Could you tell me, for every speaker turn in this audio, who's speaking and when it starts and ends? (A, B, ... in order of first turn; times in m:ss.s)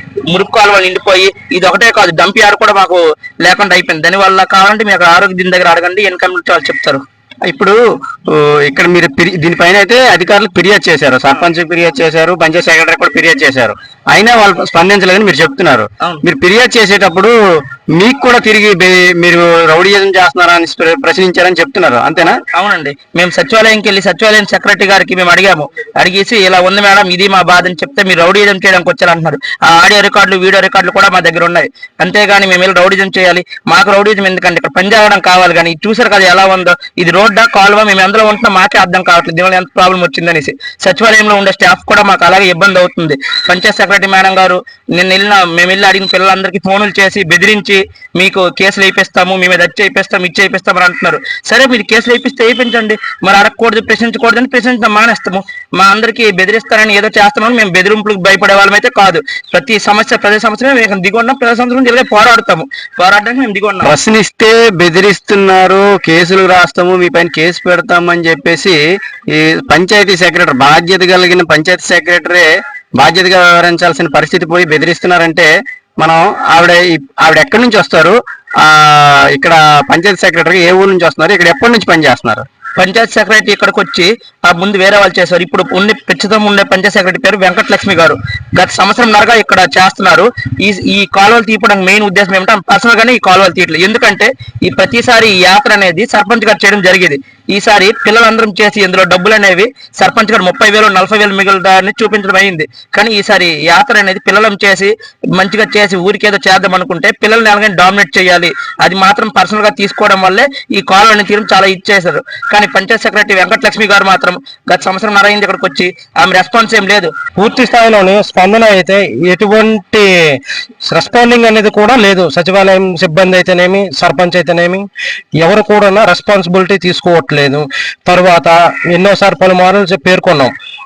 0:00.3-0:07.0 A
0:07.5-0:07.8 B
0:08.3-0:17.4 B
0:18.0-0:22.4 B
0:22.5-1:03.9 A
1:03.8-1:08.8 B
1:09.3-1:12.5 B
1:13.0-1:22.4 B
1:22.8-1:57.1 A
1:57.4-2:04.9 C
2:05.4-2:10.5 C